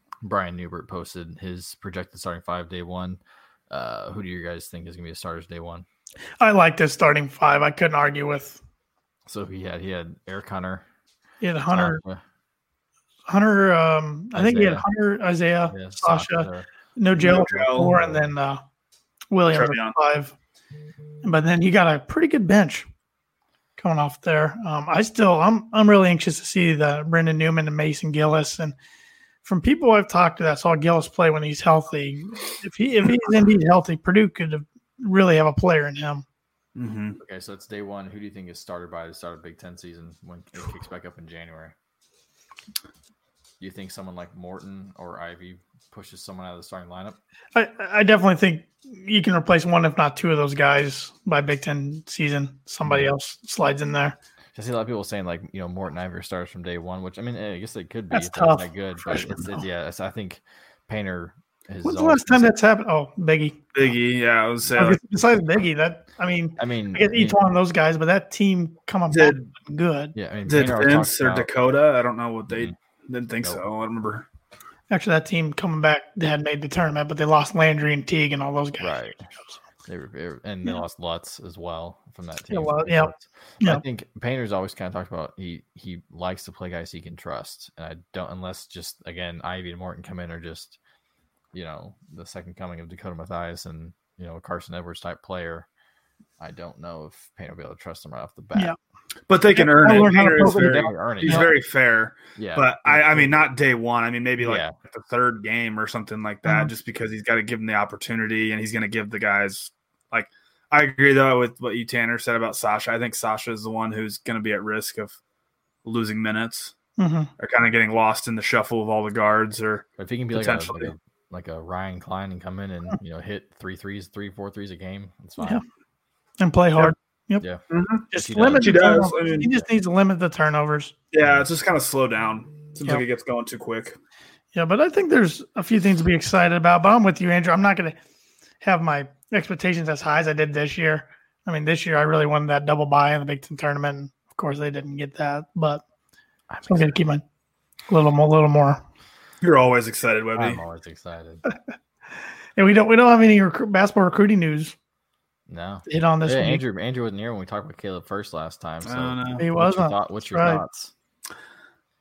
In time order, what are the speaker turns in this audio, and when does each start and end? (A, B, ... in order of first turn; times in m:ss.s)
0:00.2-0:05.8 A
0:06.4-0:08.6 B
0:09.3-0:10.8 A
0:11.4-0:12.0 B
0:11.7-0:12.2 A
0:13.3-0:18.6 B
0:14.3-0:14.8 A
0:15.7-0:16.7 A
0:17.1-0:18.0 C
0:19.3-0:20.3 B
0:19.5-0:20.0 C
0:21.2-0:22.9 B
0:23.8-0:28.7 B
0:29.4-0:36.2 B
0:36.8-0:37.2 C
0:37.2-0:41.7 A
0:43.6-0:47.2 A
0:47.5-0:54.2 B
0:52.8-0:53.1 A
0:54.5-1:02.5 A
0:58.1-0:59.6 B
1:01.8-1:03.7 B
1:03.7-1:05.0 C
1:04.8-1:10.1 B
1:06.6-1:07.4 A
1:09.1-1:09.5 C
1:10.1-1:11.5 A
1:10.4-1:14.2 C
1:12.5-1:12.8 A
1:14.9-1:19.0 B
1:18.8-1:19.3 A
1:19.8-1:30.8 A
1:22.5-1:23.8 B
1:31.5-1:35.7 A
1:36.4-1:38.7 A
1:39.3-1:55.2 C
1:39.6-1:41.5 B
1:39.9-1:41.6 A
1:42.4-1:43.4 A
1:44.4-1:44.7 A
1:46.4-1:46.7 B
1:55.8-1:56.7 C
1:57.0-1:57.3 B
1:57.4-2:00.9 C
2:00.0-2:05.6 A
2:06.4-2:07.4 B
2:07.4-2:09.6 A
2:07.7-2:09.5 C
2:08.1-2:10.9 B
2:11.1-2:14.0 C
2:11.2-2:11.5 A
2:14.5-2:18.0 B
2:18.6-2:25.8 B
2:26.5-2:27.0 A
2:26.6-2:27.2 B
2:27.9-2:28.8 B
2:29.4-2:30.6 C
2:30.3-2:31.4 A
2:32.6-2:34.7 B
2:35.5-2:40.9 A
2:35.9-2:36.6 B
2:38.8-2:39.4 C
2:39.4-2:40.6 B